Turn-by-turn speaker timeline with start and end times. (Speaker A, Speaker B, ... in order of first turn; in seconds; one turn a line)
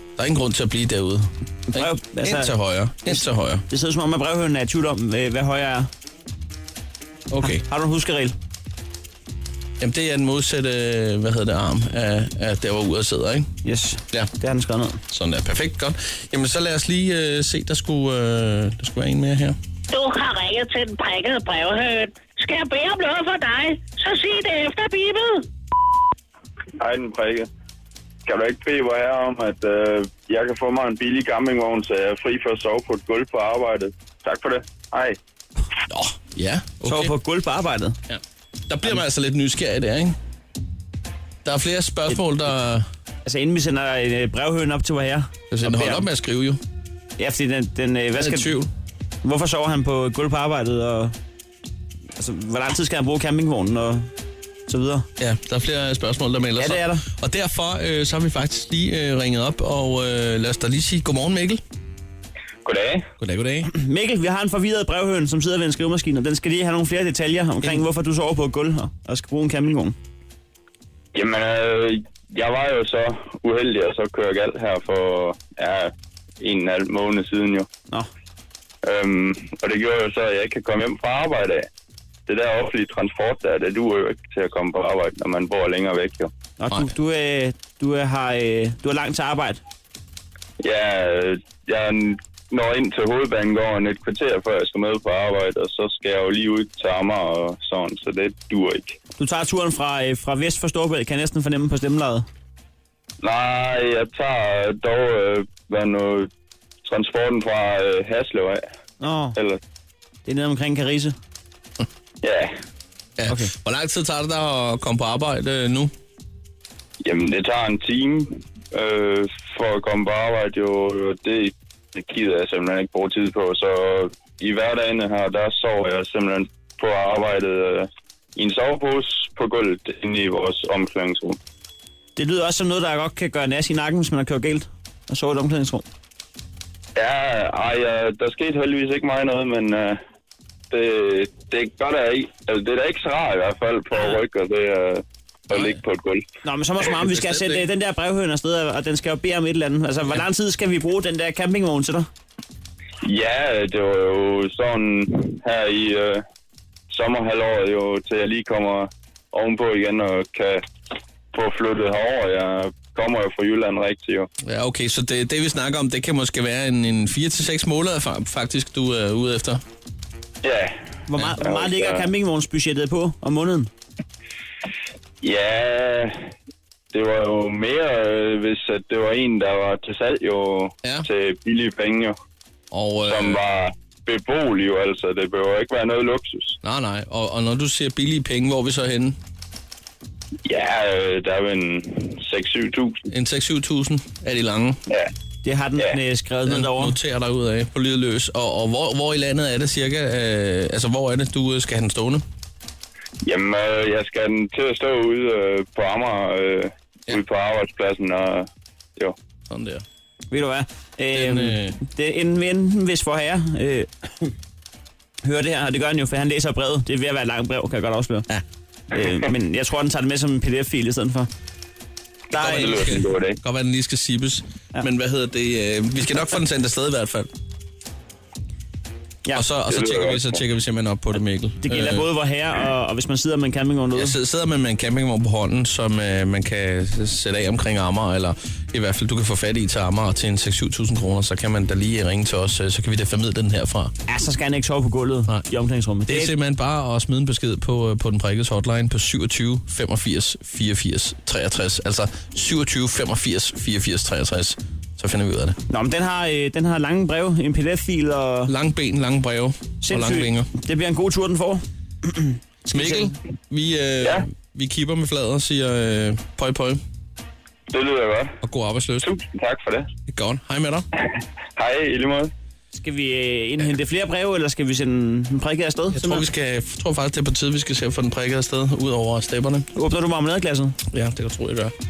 Speaker A: 0.2-3.6
Speaker B: 1.7-2.5
Speaker B: 3.1-5.9
Speaker A: 7.3-7.6
Speaker B: 7.4-8.3
Speaker A: 9.8-13.5
Speaker B: 13.6-15.0
Speaker A: 15.1-19.6
Speaker C: 19.9-25.4
Speaker D: 26.8-27.5
Speaker D: 28.2-35.2
Speaker A: 35.9-37.1
Speaker B: 36.8-38.0
Speaker A: 38.1-40.1
Speaker A: 41.4-42.9
Speaker B: 43.2-46.0
Speaker A: 45.5-46.6
Speaker B: 47.2-48.5
Speaker A: 48.2-48.7
Speaker B: 49.2-51.1
Speaker B: 52.2-54.1
Speaker B: 54.7-55.1
Speaker A: 55.2-61.6
Speaker B: 56.6-57.0
Speaker D: 62.6-63.1
Speaker A: 63.2-63.7
Speaker B: 63.7-70.0
Speaker D: 71.1-77.7
Speaker D: 78.8-81.7
Speaker D: 82.3-86.3
Speaker B: 86.6-89.6
Speaker D: 90.6-99.0
Speaker B: 99.2-102.2
Speaker D: 103.2-106.3
Speaker D: 106.8-108.6
Speaker B: 109.0-109.3
Speaker B: 110.2-111.1
Speaker D: 112.2-112.5
Speaker A: 113.2-115.9
Speaker D: 117.0-131.4
Speaker B: 132.2-135.8
Speaker D: 136.9-140.0
Speaker D: 140.7-146.2
Speaker A: 145.5-145.8
Speaker B: 146.4-152.1
Speaker A: 146.8-147.6
Speaker D: 153.0-156.2
Speaker D: 156.9-160.6
Speaker D: 161.3-164.3
Speaker A: 164.4-169.6
Speaker D: 170.4-170.8
Speaker B: 171.1-173.7
Speaker D: 171.4-172.1
Speaker D: 175.2-176.3
Speaker D: 176.9-182.2
Speaker A: 182.7-183.4
Speaker D: 183.0-186.6
Speaker A: 186.6-189.2
Speaker D: 190.4-193.0
Speaker A: 193.1-194.8
Speaker B: 195.4-196.9
Speaker A: 196.4-202.2
Speaker D: 203.2-209.1
Speaker A: 209.5-209.8
Speaker B: 210.3-214.3
Speaker A: 211.1-211.8
Speaker B: 215.2-218.3
Speaker B: 218.9-221.3
Speaker D: 222.3-223.4
Speaker A: 222.3-227.3
Speaker B: 222.3-222.8
Speaker A: 229.3-232.1
Speaker D: 229.7-230.4
Speaker B: 231.6-234.1
Speaker A: 233.9-243.9
Speaker B: 244.1-246.3
Speaker A: 246.1-255.6
Speaker B: 255.7-258.5
Speaker A: 258.5-260.5
Speaker B: 259.8-263.1
Speaker A: 262.7-266.8
Speaker D: 267.7-268.4
Speaker A: 268.4-269.1
Speaker D: 269.0-269.9
Speaker A: 270.1-270.9
Speaker D: 271.0-272.3
Speaker B: 272.7-276.2
Speaker A: 275.9-279.7
Speaker B: 279.7-280.8
Speaker A: 280.9-281.7